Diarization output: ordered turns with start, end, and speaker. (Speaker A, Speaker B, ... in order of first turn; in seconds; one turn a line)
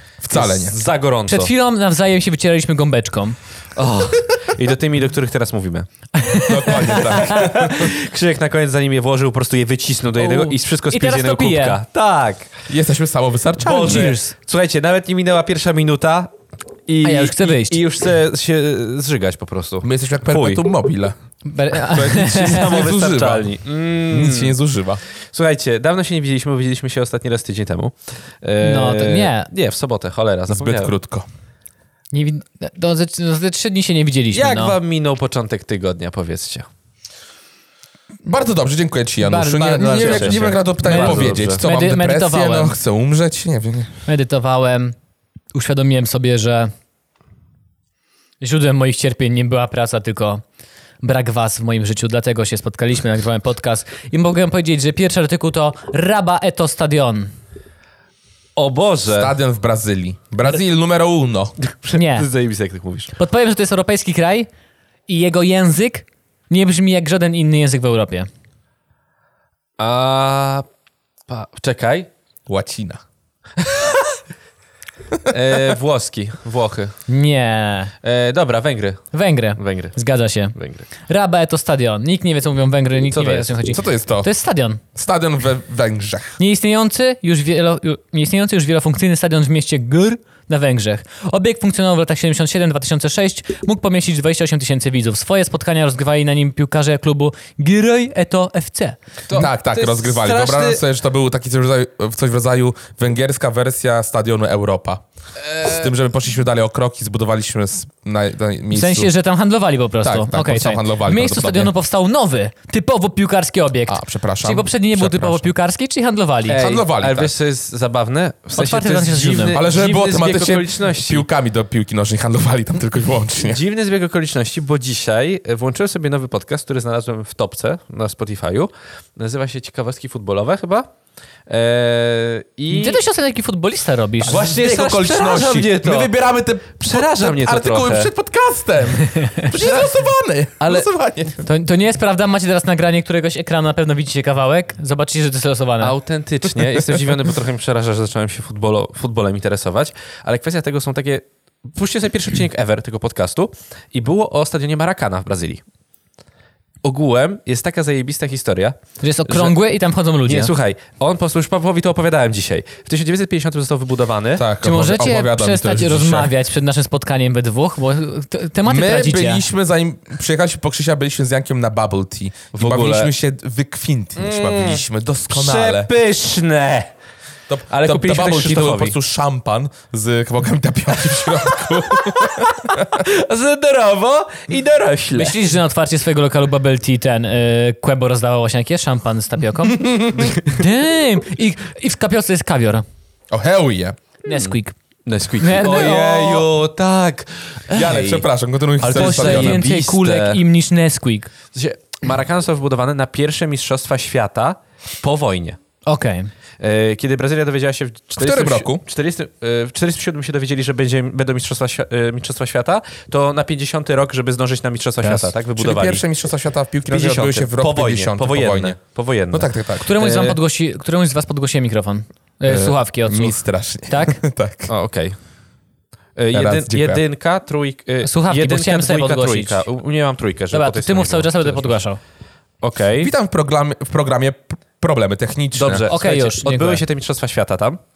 Speaker A: 0.2-0.8
Speaker B: 0.3-1.5
Speaker C: 1.3-3.4
Speaker B: 3.8-5.9
Speaker C: 6.2-7.6
Speaker A: 6.5-7.9
Speaker B: 6.9-12.5
Speaker C: 10.2-11.8
Speaker A: 12.7-14.2
Speaker B: 13.6-16.3
Speaker C: 13.7-14.3
Speaker B: 16.9-20.6
Speaker C: 17.0-17.8
Speaker A: 19.8-21.1
Speaker C: 21.4-22.7
Speaker A: 21.7-23.5
Speaker B: 22.2-24.6
Speaker A: 24.1-25.0
Speaker B: 25.3-30.9
Speaker C: 28.6-29.5
Speaker A: 30.5-31.3
Speaker C: 32.1-34.8
Speaker B: 34.3-36.7
Speaker A: 38.2-44.0
Speaker C: 39.2-42.8
Speaker B: 39.9-41.6
Speaker C: 44.1-45.0
Speaker C: 45.5-46.7
Speaker C: 48.4-50.4
Speaker C: 51.0-57.3
Speaker B: 58.6-59.3
Speaker A: 59.1-61.5
Speaker B: 61.6-63.1
Speaker C: 62.0-62.3
Speaker C: 63.1-64.5
Speaker C: 65.1-68.3
Speaker B: 69.8-70.7
Speaker B: 71.3-72.1
Speaker A: 72.5-73.0
Speaker B: 75.3-76.9
Speaker C: 77.1-77.9
Speaker B: 78.0-80.0
Speaker C: 79.1-84.8
Speaker B: 80.5-80.9
Speaker B: 83.1-83.5
Speaker A: 83.7-84.3
Speaker A: 85.0-86.4
Speaker C: 86.4-99.0
Speaker B: 99.3-100.8
Speaker A: 99.3-105.0
Speaker B: 105.5-105.8
Speaker A: 105.6-109.1
Speaker C: 108.7-116.6
Speaker A: 110.0-111.7
Speaker A: 113.9-115.5
Speaker B: 116.5-121.3
Speaker A: 116.6-117.3
Speaker C: 118.6-119.6
Speaker A: 119.5-123.6
Speaker B: 123.4-130.9
Speaker B: 131.5-133.0
Speaker C: 132.7-134.4
Speaker B: 134.2-136.2
Speaker A: 134.3-141.4
Speaker B: 136.8-138.1
Speaker C: 139.0-139.5
Speaker B: 140.6-140.9
Speaker C: 141.4-145.9
Speaker B: 145.8-155.6
Speaker B: 156.8-159.6
Speaker C: 159.0-160.5
Speaker B: 160.2-164.4
Speaker A: 164.4-166.3
Speaker C: 164.6-169.4
Speaker A: 168.7-175.9
Speaker B: 172.5-173.1
Speaker B: 174.2-176.9
Speaker A: 177.5-183.0
Speaker B: 177.7-179.0
Speaker B: 181.7-185.4
Speaker C: 185.1-192.8
Speaker A: 189.8-190.3
Speaker A: 193.3-194.0
Speaker C: 194.2-194.7
Speaker B: 194.3-194.6
Speaker B: 195.1-198.3
Speaker C: 195.4-196.5
Speaker A: 197.7-199.6
Speaker B: 198.8-200.4
Speaker C: 198.9-201.3
Speaker B: 201.5-205.6
Speaker C: 205.9-206.3
Speaker B: 206.6-216.0
Speaker A: 208.2-208.8
Speaker A: 215.6-218.8
Speaker B: 216.9-220.4
Speaker A: 219.3-219.9
Speaker C: 219.8-224.2
Speaker A: 222.5-224.7
Speaker B: 224.7-225.2
Speaker B: 226.2-231.8
Speaker A: 226.3-227.0
Speaker C: 228.0-229.7
Speaker C: 230.5-232.0
Speaker B: 232.6-233.1
Speaker A: 233.0-235.9
Speaker B: 235.6-237.8
Speaker C: 235.9-236.8